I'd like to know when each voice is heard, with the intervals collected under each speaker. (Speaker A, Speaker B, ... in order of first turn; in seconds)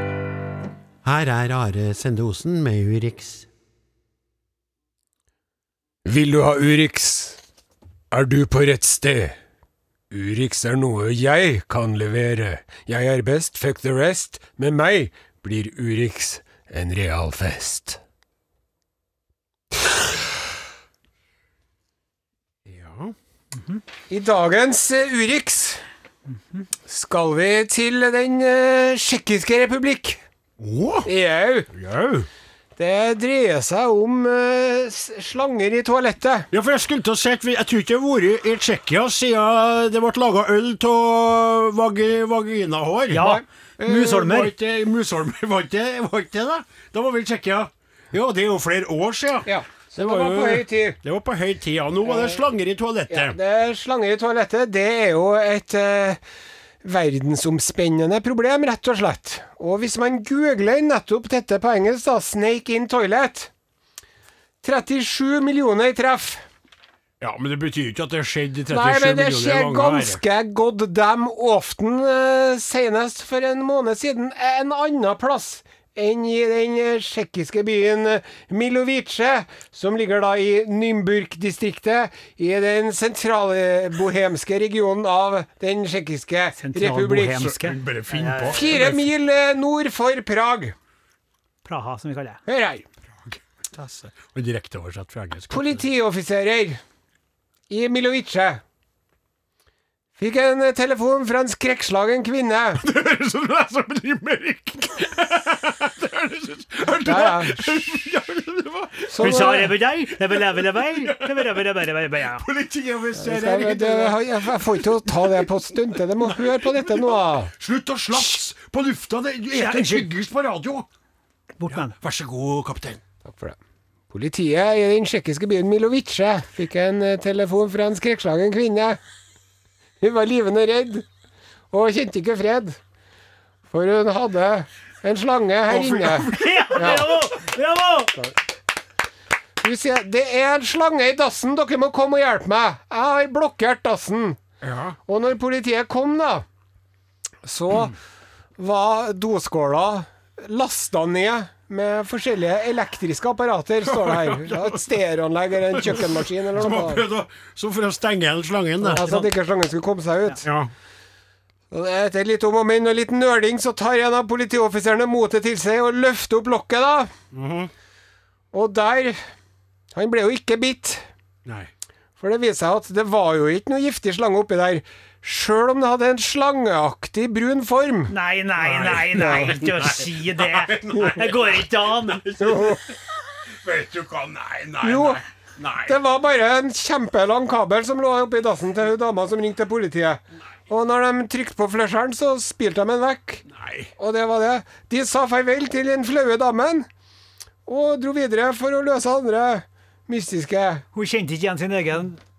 Speaker A: 1.0-3.5, 22.7-23.1, 30.6-31.1, 31.7-32.3, 36.5-53.4, 67.2-70.2, 87.4-89.0, 93.2-95.8, 102.8-109.6, 110.2-111.6, 112.2-115.5, 116.2-120.9, 121.7-123.0, 135.7-137.1, 144.6-145.0, 153.8-154.9, 155.7-159.0, 160.4-160.7, 167.3-167.7, 171.4-171.7, 178.6-186.0, 193.5-193.9
Speaker B: 6.0-7.4, 8.1-9.4, 10.1-18.0, 24.1-25.8, 26.9-30.2, 31.1-31.7, 32.8-36.5, 43.2-44.1, 49.5-51.0, 52.0-52.4, 53.1-56.2, 56.8-63.5, 64.6-66.4, 68.7-87.5, 88.5-90.8, 92.5-92.8, 95.5-96.8, 97.7-98.6, 100.2-102.8, 107.0-107.9, 109.1-109.7, 113.2-117.5, 123.2-123.6, 124.1-129.0, 130.0-131.1, 131.7-132.8, 133.7-137.1, 139.6-144.4, 145.1-146.4, 147.4-148.0, 148.6-157.0, 158.8-160.4, 161.7-167.1, 168.5-169.2, 169.9-171.1, 172.2-178.1, 179.2-179.5, 182.4-182.8, 184.8-185.2, 185.9-193.4, 194.0-196.9, 197.7-200.8
Speaker C: 43.1-44.5, 86.6-88.9, 91.7-92.4, 109.2-112.4, 119.5-120.1, 121.6-121.9, 136.2-138.2, 158.9-159.3, 178.1-182.2, 200.9-202.2